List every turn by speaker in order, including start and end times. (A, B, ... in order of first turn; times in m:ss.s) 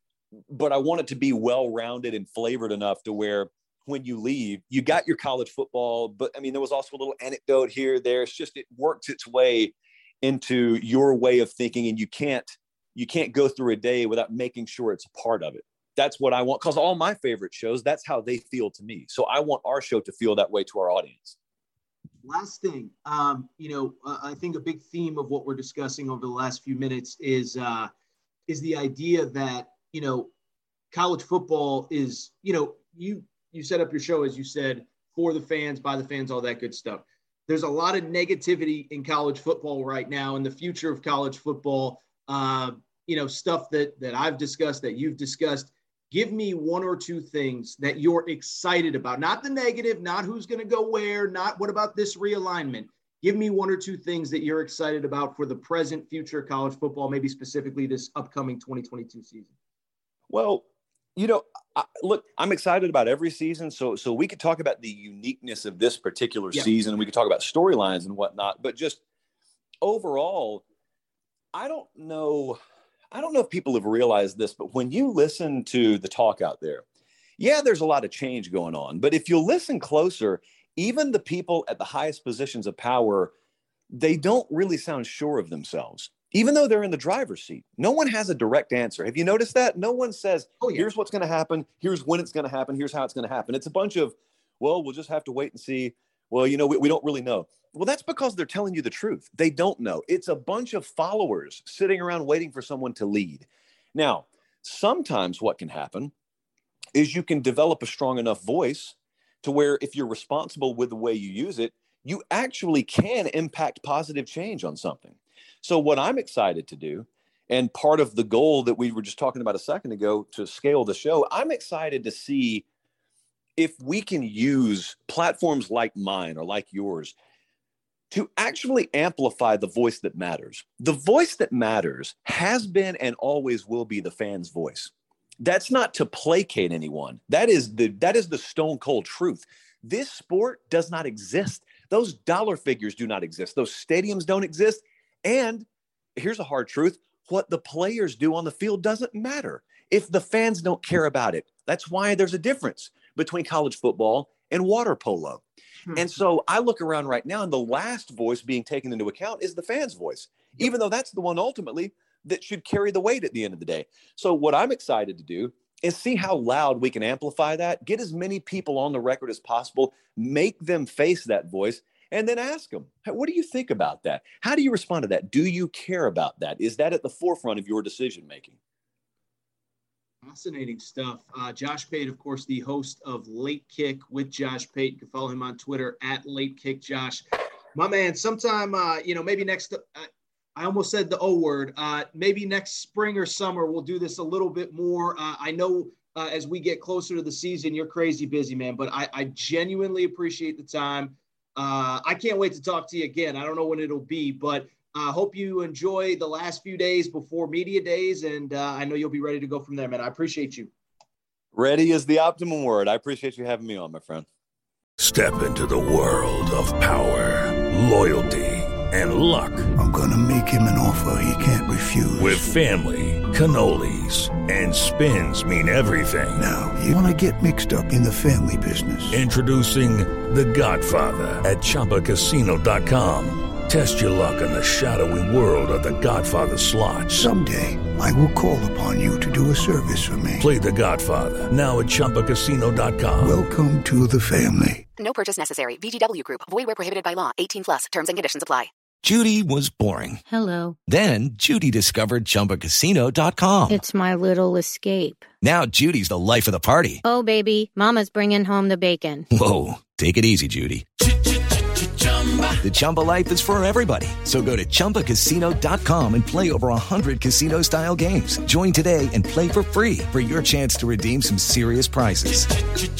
0:00.5-0:21.4 A
0:22.2-0:27.9 B
0:28.5-0:30.3 B
0:30.9-0:59.5 B
1:00.3-1:00.6 A
1:01.2-1:09.0 A
1:09.8-1:10.6 A
1:11.5-1:12.6 A
1:13.1-1:16.8 A
1:17.4-1:23.3 A
1:23.9-1:46.1 A
1:30.6-1:30.9 B
1:46.9-2:02.6 A
2:03.6-2:07.1 A
2:08.1-2:35.4 A
2:35.9-2:58.6 A
3:00.2-3:07.2 B
3:07.7-3:30.7 B
3:31.5-3:34.2 A
3:35.0-3:39.7 C
3:39.8-3:42.5 D
3:42.2-3:46.4 C
3:46.4-3:49.2 D
3:49.1-3:57.2 C
3:57.1-4:00.5 D
4:00.4-4:03.4 C
4:03.2-4:04.8 D
4:05.0-4:08.7 E
4:09.0-4:10.2 F
4:10.2-4:10.8 G
4:10.9-4:13.8 F
4:13.7-4:15.3 G
4:15.4-4:17.0 F
4:17.0-4:19.2 G
4:19.3-4:20.9 F
4:22.6-4:32.6 F